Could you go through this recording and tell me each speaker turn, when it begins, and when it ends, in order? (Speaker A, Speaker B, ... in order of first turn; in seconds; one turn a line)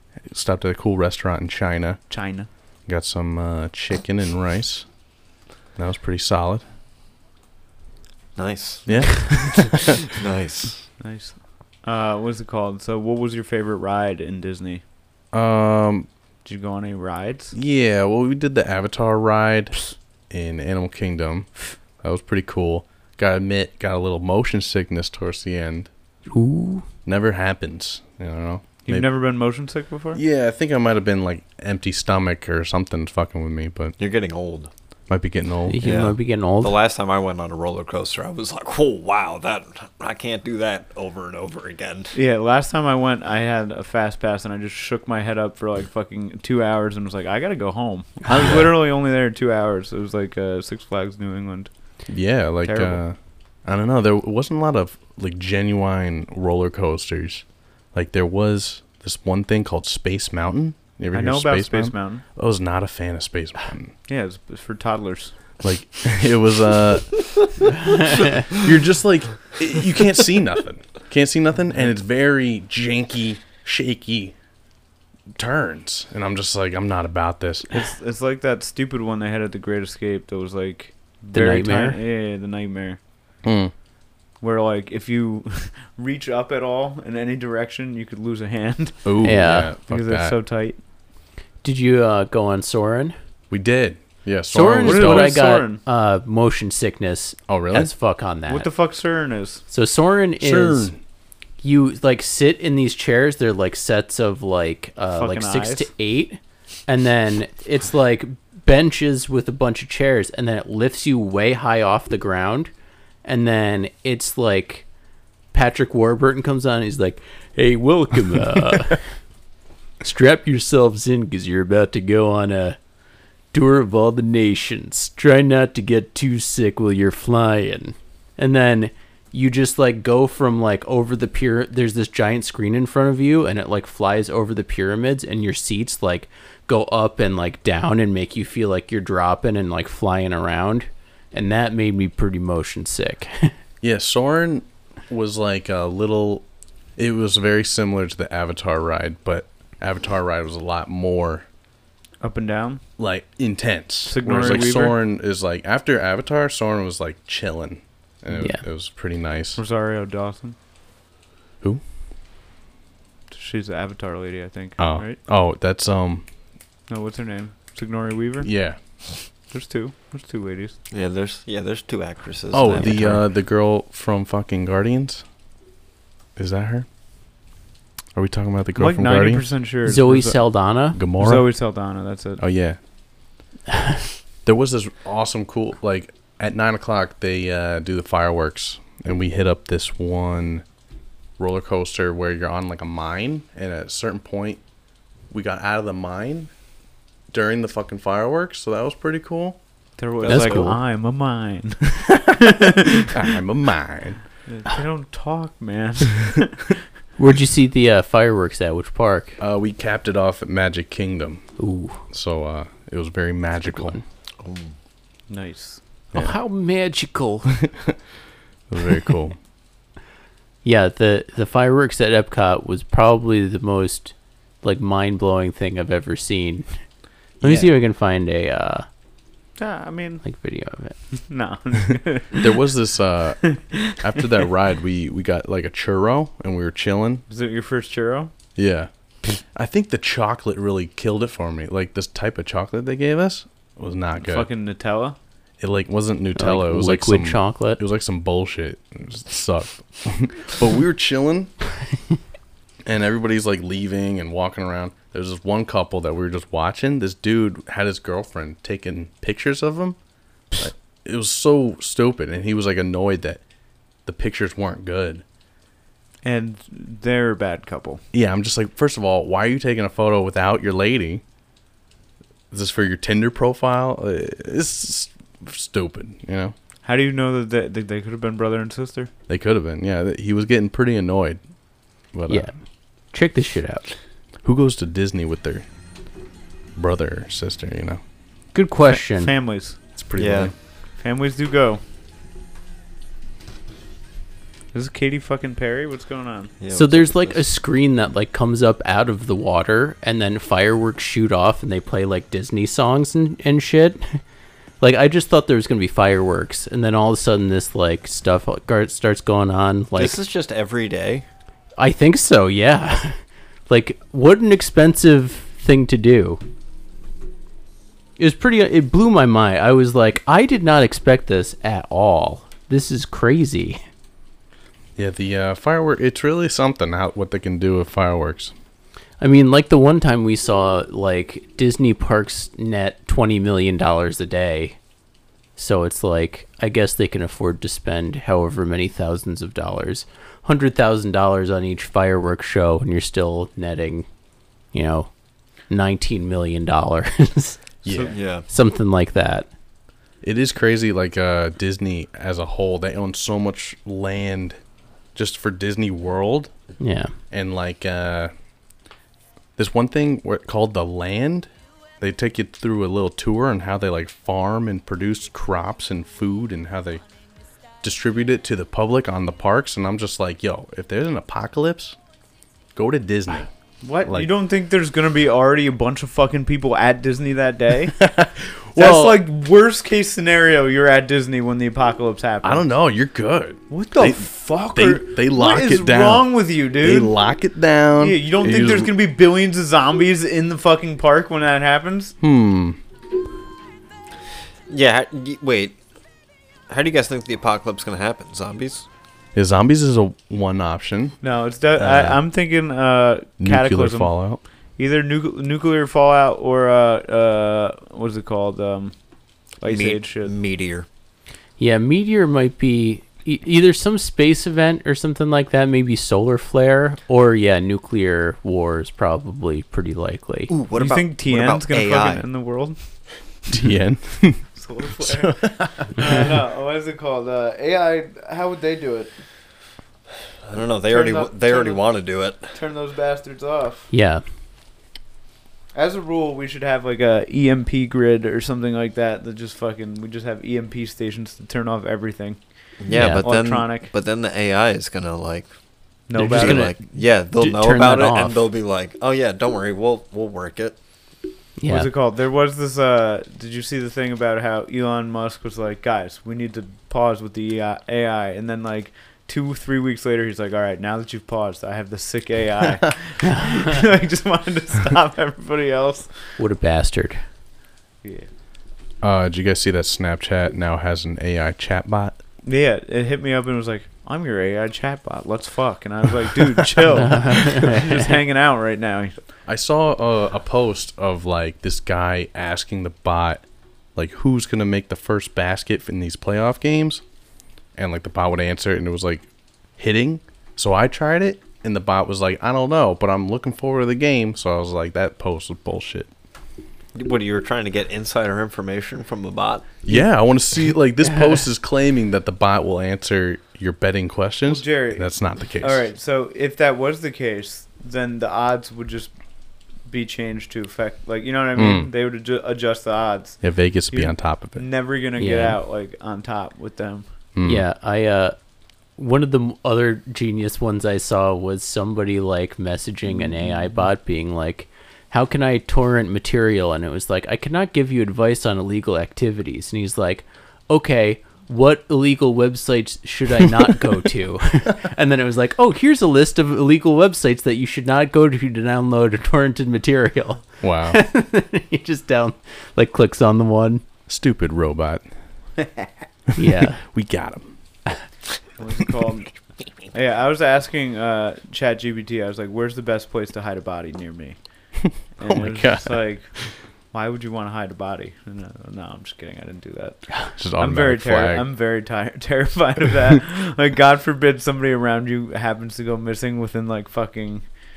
Speaker A: 0.3-2.0
Speaker B: 2.1-2.5
Speaker A: 2.9-4.9
Speaker A: 5.8-6.6
Speaker C: 8.3-10.9
Speaker A: 8.9-10.0
Speaker B: 11.0-14.8
Speaker A: 15.3-16.1
Speaker B: 16.4-17.5
Speaker A: 17.5-25.9
Speaker D: 26.3-26.9
Speaker A: 27.0-29.1
Speaker B: 28.9-30.2
Speaker A: 30.1-34.0
Speaker C: 34.0-34.7
Speaker A: 35.1-35.8
Speaker D: 35.7-36.8
Speaker C: 35.8-42.1
Speaker B: 42.1-51.7
Speaker A: 48.3-48.7
Speaker A: 52.1-63.9
Speaker B: 52.6-53.0
Speaker B: 61.1-62.2
Speaker B: 64.1-65.3
Speaker A: 65.6-67.7
Speaker A: 68.5-74.3
Speaker A: 75.3-77.7
Speaker B: 77.7-83.0
Speaker D: 81.3-82.0
Speaker A: 83.4-83.7
Speaker B: 84.4-90.8
Speaker A: 89.0-90.4
Speaker D: 89.2-89.7
Speaker D: 91.6-93.1
Speaker A: 93.5-95.4
Speaker D: 94.5-98.7
Speaker B: 94.8-95.8
Speaker A: 97.5-97.9
Speaker B: 98.5-99.6
Speaker D: 99.7-100.9
Speaker A: 100.4-101.0
Speaker D: 101.6-112.7
Speaker B: 105.1-105.9
Speaker D: 113.2-114.9
Speaker D: 115.5-119.0
Speaker D: 120.0-122.8
Speaker D: 123.5-143.5
Speaker A: 143.8-146.4
Speaker A: 147.0-151.5
Speaker B: 152.2-152.8
Speaker A: 153.0-159.6
Speaker B: 154.0-155.0
Speaker B: 159.6-160.6
Speaker B: 163.3-165.2
Speaker A: 164.8-166.3
Speaker B: 166.9-168.5
Speaker A: 168.4-168.8
Speaker B: 169.5-170.8
Speaker C: 170.9-173.2
Speaker A: 172.5-175.2
Speaker A: 176.4-176.9
Speaker A: 178.1-179.5
Speaker B: 178.8-180.5
Speaker D: 179.8-181.0
Speaker A: 180.9-181.5
Speaker B: 181.2-182.4
Speaker A: 182.4-182.8
Speaker A: 184.4-190.6
Speaker A: 191.4-194.6
Speaker A: 195.3-196.5
Speaker A: 197.3-199.6
Speaker B: 200.0-203.1
Speaker C: 200.2-200.7
Speaker D: 200.2-200.8
Speaker A: 203.1-204.2
Speaker B: 204.5-206.7
Speaker D: 207.2-209.4
Speaker A: 209.4-211.5
Speaker D: 211.6-212.0
Speaker A: 212.1-214.0
Speaker D: 213.6-214.0
Speaker C: 214.4-214.8
Speaker B: 215.3-215.8
Speaker D: 216.1-217.6
Speaker A: 217.6-217.9
Speaker A: 218.7-219.4
Speaker D: 220.6-226.7
Speaker D: 227.4-228.9
Speaker B: 227.4-227.7
Speaker B: 229.6-230.2
Speaker D: 230.2-231.0
Speaker B: 231.2-232.5
Speaker A: 232.3-237.2
Speaker B: 233.6-234.0
Speaker B: 237.3-238.3
Speaker A: 238.6-244.5
Speaker B: 244.2-245.2
Speaker A: 245.6-251.5
Speaker D: 246.4-247.8
Speaker A: 252.8-260.0
Speaker A: 260.6-263.4
Speaker A: 264.1-265.2
Speaker B: 266.2-268.0
Speaker A: 268.1-271.2
Speaker A: 272.5-276.5
Speaker B: 276.8-279.1
Speaker A: 279.3-281.4
Speaker A: 282.1-282.5
Speaker D: 282.3-282.6
Speaker D: 283.1-283.9
Speaker A: 284.4-285.6
Speaker A: 286.8-288.0
Speaker D: 288.5-289.3
Speaker B: 288.9-289.8
Speaker A: 290.0-290.5
Speaker C: 290.2-290.5
Speaker B: 291.0-291.8
Speaker B: 294.7-296.5
Speaker C: 296.6-297.4
Speaker D: 296.7-304.2
Speaker D: 304.8-310.2
Speaker C: 310.0-311.2
Speaker D: 311.8-316.4
Speaker D: 318.2-323.8
Speaker A: 325.0-328.5
Speaker D: 329.2-334.8
Speaker D: 335.6-344.1
Speaker D: 344.7-345.1
Speaker D: 345.7-347.6
Speaker A: 347.8-348.1
Speaker B: 347.9-348.1
Speaker C: 348.1-348.5
Speaker D: 348.5-349.5
Speaker A: 350.2-354.6
Speaker A: 355.1-356.5
Speaker D: 356.8-357.1
Speaker A: 357.3-358.3
Speaker A: 359.6-361.5
Speaker A: 362.0-367.0
Speaker A: 367.8-372.0
Speaker A: 372.8-373.5
Speaker B: 373.8-378.0
Speaker A: 374.0-374.3
Speaker A: 377.9-379.2
Speaker B: 378.8-382.7
Speaker A: 382.4-388.9
Speaker B: 383.7-387.2
Speaker B: 388.0-392.1
Speaker A: 392.2-392.8
Speaker C: 394.7-395.8
Speaker C: 396.7-398.9
Speaker A: 399.4-401.2
Speaker B: 401.2-409.0
Speaker A: 401.8-402.2
Speaker A: 403.4-404.4
Speaker B: 409.6-410.3
Speaker C: 409.6-410.9
Speaker D: 411.6-420.5
Speaker C: 420.5-422.2
Speaker B: 420.8-422.8
Speaker A: 423.5-425.9
Speaker B: 424.5-429.1
Speaker C: 430.5-432.5
Speaker B: 430.9-431.8
Speaker B: 432.5-433.9
Speaker D: 433.9-434.2
Speaker B: 435.8-443.9
Speaker C: 442.8-445.5
Speaker D: 442.9-443.2
Speaker B: 446.1-446.7
Speaker C: 446.1-450.8
Speaker D: 446.2-448.4
Speaker D: 451.6-451.9
Speaker B: 451.7-466.2
Speaker D: 466.4-467.2
Speaker A: 469.0-472.2
Speaker B: 472.4-479.1
Speaker D: 477.0-478.0
Speaker A: 479.5-483.4
Speaker A: 483.9-487.0
Speaker A: 487.8-489.2
Speaker A: 489.8-496.1
Speaker C: 496.9-499.8
Speaker A: 499.9-505.8
Speaker B: 504.4-509.1
Speaker B: 509.9-517.1
Speaker A: 511.6-511.9
Speaker A: 513.4-514.6
Speaker D: 515.2-515.6
Speaker A: 517.4-517.6
Speaker D: 517.5-518.4
Speaker D: 519.0-543.8
Speaker B: 523.1-523.8
Speaker A: 540.6-541.0
Speaker A: 544.1-545.1
Speaker D: 546.4-546.8
Speaker A: 546.4-547.5
Speaker B: 548.6-549.3
Speaker B: 549.9-554.4
Speaker B: 555.1-556.3
Speaker A: 555.2-556.5
Speaker B: 556.9-567.5
Speaker A: 560.4-561.5